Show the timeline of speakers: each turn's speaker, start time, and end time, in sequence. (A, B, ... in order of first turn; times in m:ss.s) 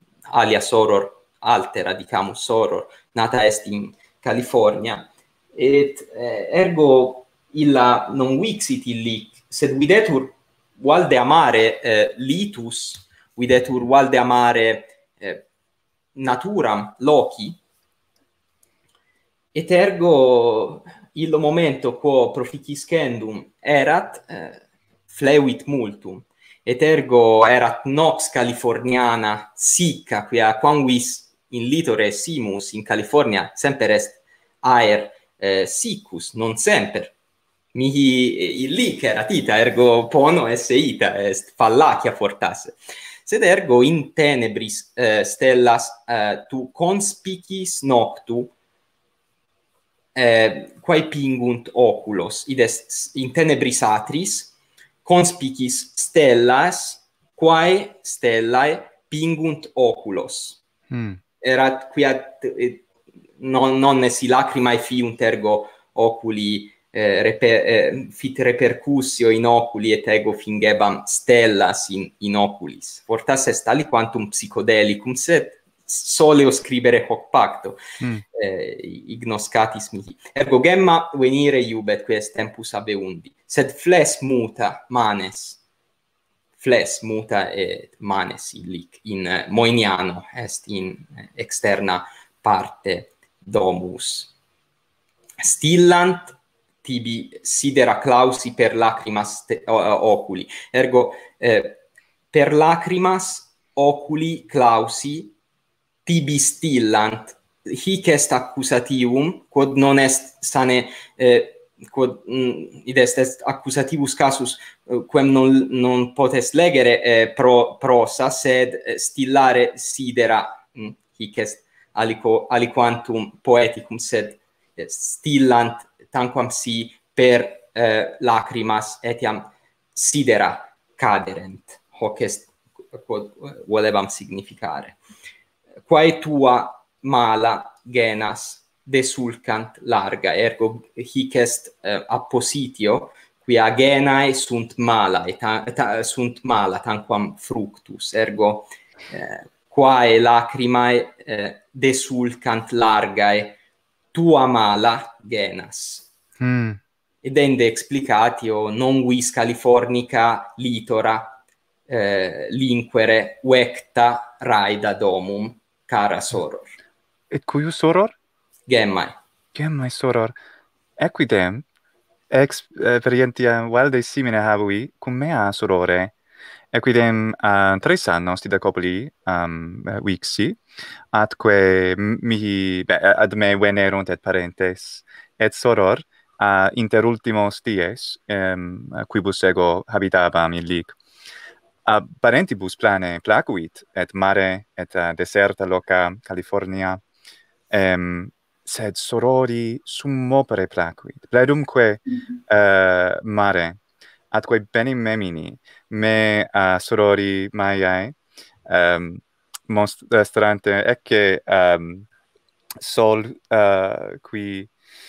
0:00.3-0:15.4 A
0:16.1-0:17.6 A
0:19.5-0:37.1 A
0:37.7-0:48.5 A
0:50.1-0:54.5 A
0:55.0-1:00.6 A
1:00.9-1:01.2 B
1:01.4-1:02.8 A
1:03.4-1:17.8 A
1:18.0-1:18.2 B
1:18.3-1:25.6 A
1:26.6-1:34.3 A
1:35.4-1:41.8 A
1:42.3-1:45.3 A
1:46.0-2:15.0 A
2:15.8-2:33.6 A
2:34.1-2:36.1 A
2:36.4-2:36.8 B
2:37.2-2:46.7 A
2:47.3-2:48.1 B
2:48.7-2:49.2 A
2:49.5-2:50.3 B
2:51.0-2:51.6 B
2:52.3-2:56.1 B
2:56.7-3:00.6 B
3:01.1-3:11.0 B
3:11.8-3:17.0 B
3:17.7-3:23.8 B
3:24.3-3:28.2 B
3:28.7-3:32.1 B
3:32.8-3:34.7 B